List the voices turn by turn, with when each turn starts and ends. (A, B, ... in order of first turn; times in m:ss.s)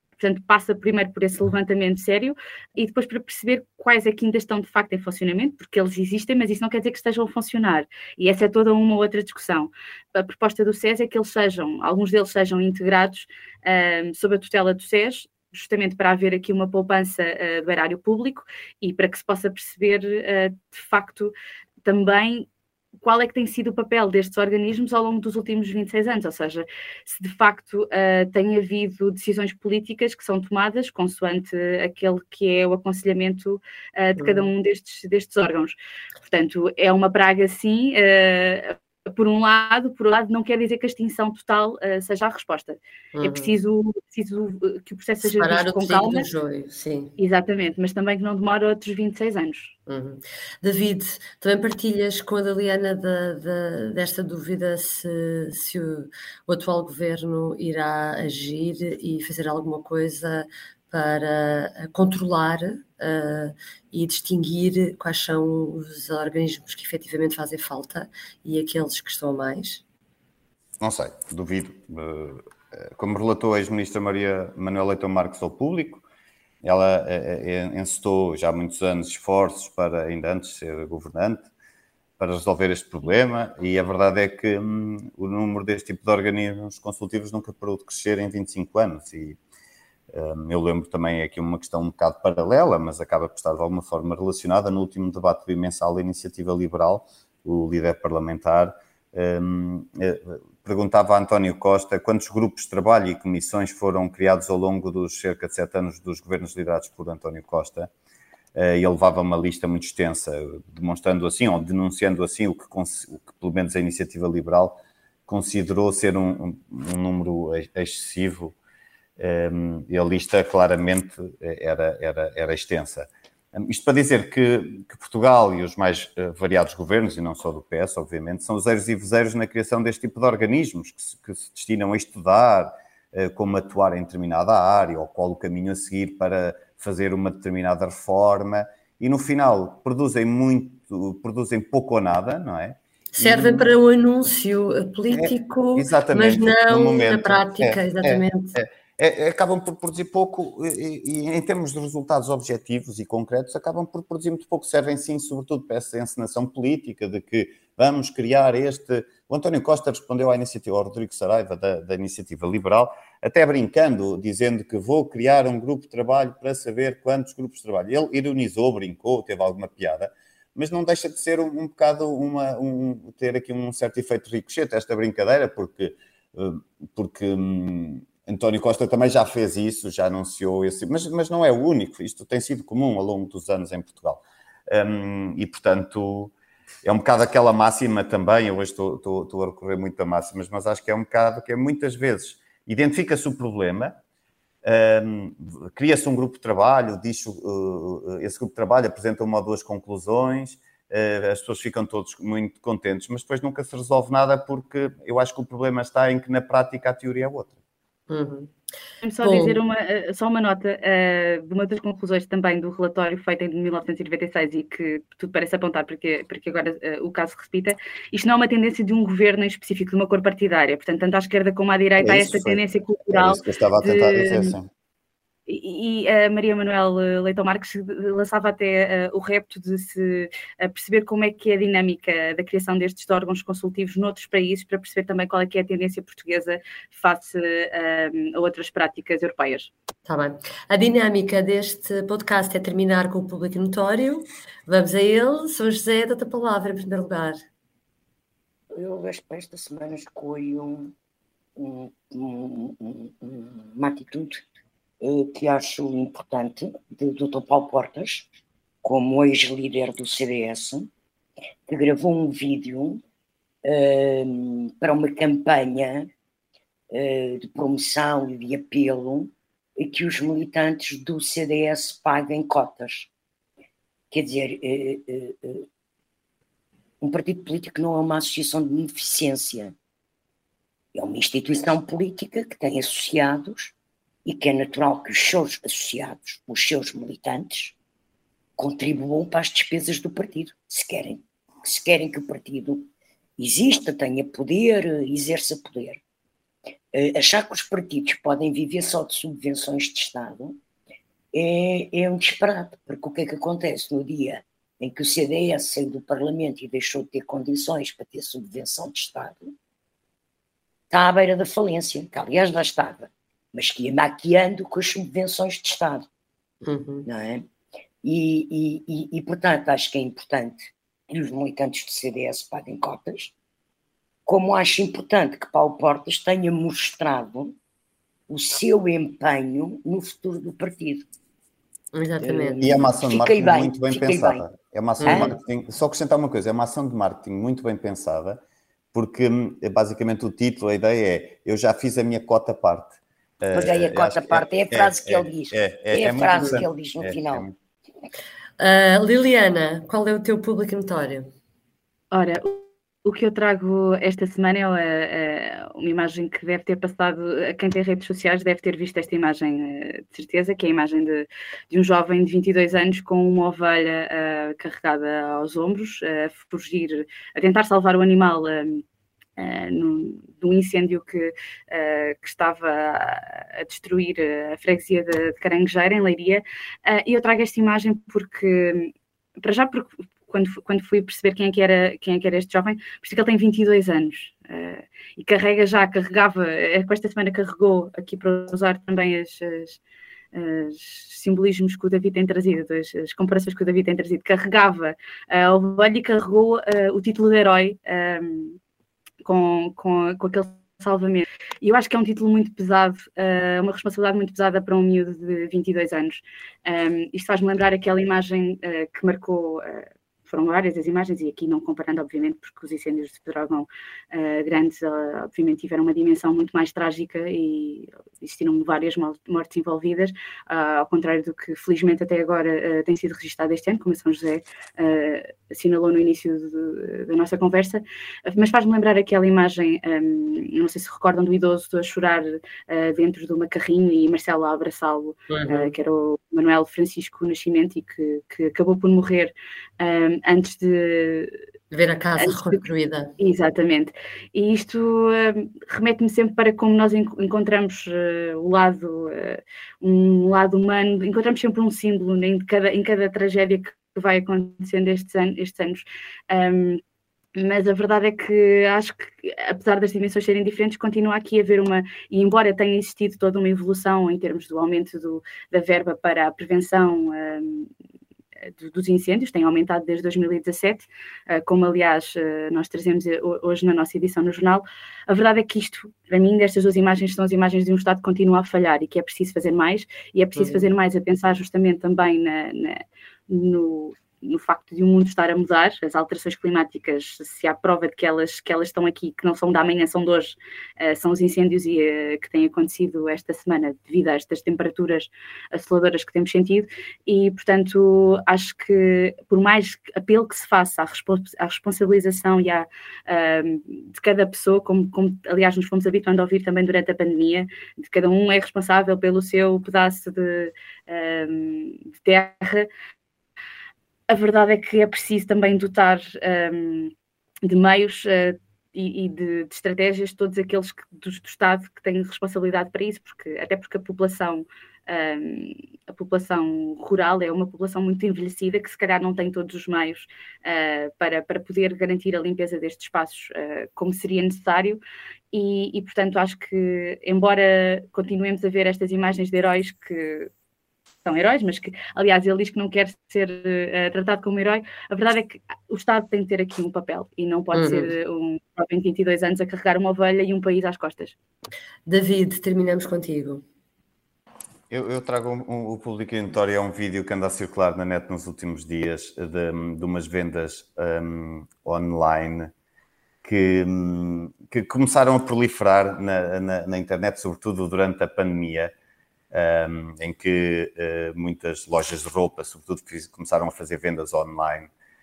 0:00.2-0:21.3 A
0:21.8-0:46.2 A
0:34.2-0:34.5 B
0:43.1-0:43.6 B
0:45.2-0:47.1 B
0:47.2-0:49.7 A
0:49.9-1:09.8 B
1:10.8-1:16.0 C
1:16.6-1:21.5 C
1:22.2-1:29.4 C
1:30.1-1:47.9 C
1:48.5-1:58.5 C
1:59.2-2:23.7 C
2:23.2-2:28.6 B
2:25.1-3:06.3 C
3:06.8-3:14.0 C
3:14.6-3:27.6 C
3:28.1-3:28.5 B
3:29.0-3:44.5 A
3:29.2-3:29.6 B
3:42.0-3:44.7 C
3:45.5-3:59.7 A
4:00.0-4:07.4 B
4:08.7-4:10.9 D
4:11.6-4:14.4 D
4:15.0-4:20.9 D
4:21.7-4:23.0 D
4:23.6-4:26.1 D
4:26.9-4:33.1 D
4:34.1-4:35.6 D
4:37.0-4:39.7 D
4:40.9-4:47.8 D
4:48.6-4:56.0 D
4:56.9-5:00.6 D
5:01.3-5:09.5 D
5:10.9-5:16.1 D
5:16.6-5:17.1 B
5:17.0-5:17.4 D
5:18.0-5:23.3 D
5:24.2-5:27.6 D
5:28.3-5:31.1 D
5:31.9-5:32.7 B
5:32.2-5:34.4 D
5:32.6-5:38.4 C
5:35.0-5:35.4 B
5:35.0-5:35.3 D
5:38.9-5:47.5 C
5:43.5-5:47.5 D
5:48.6-5:51.3 B
5:52.1-6:08.8 A
6:09.4-6:29.8 A
6:30.3-6:38.6 A
6:39.2-7:21.4 A
7:15.3-7:15.7 B
7:21.7-7:23.1 B
7:22.2-7:22.6 A
7:23.2-7:36.8 A
7:37.4-7:47.7 A
7:48.5-8:32.7 A
8:00.4-8:00.7 B
8:34.1-8:54.8 A
8:55.3-9:00.3 A
9:01.0-9:11.1 A
9:07.5-9:07.9 B
9:11.9-9:13.4 B
9:14.7-9:22.5 C
9:23.2-9:28.7 C
9:29.3-9:34.7 C